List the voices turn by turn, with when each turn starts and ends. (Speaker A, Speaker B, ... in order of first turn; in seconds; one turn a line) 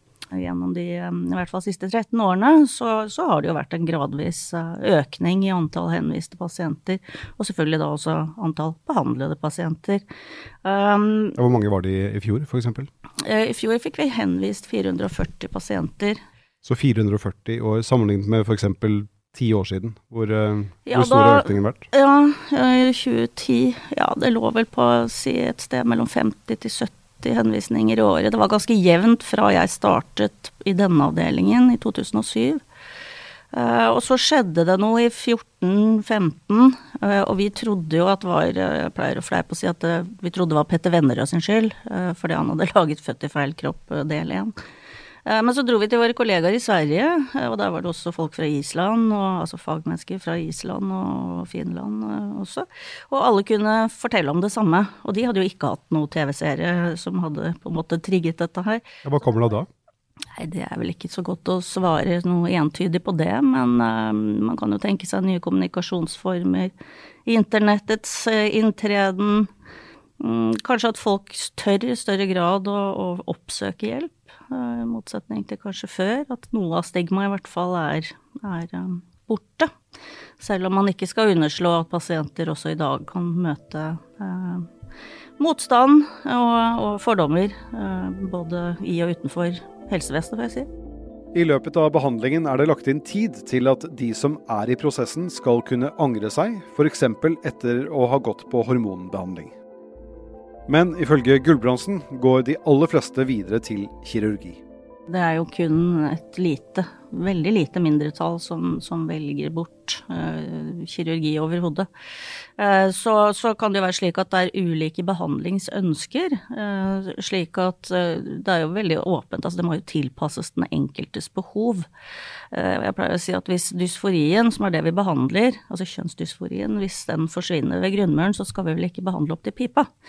Speaker A: 0.3-10.0
Speaker A: 10.6-11.4
Speaker B: 11.3-12.9
Speaker A: 13.2-16.2
Speaker B: 16.6-21.8
Speaker A: 20.9-32.6
Speaker A: 33.5-44.5
Speaker A: 45.3-58.8
Speaker B: 59.0-59.7
Speaker A: 60.4-66.7
Speaker A: 67.3-69.5
Speaker A: 70.2-79.7
Speaker A: 80.4-84.7
Speaker A: 85.4-90.7
Speaker B: 91.3-99.5
Speaker B: 100.7-104.6
Speaker A: 105.1-111.9
Speaker A: 112.6-121.9
Speaker A: 122.5-129.9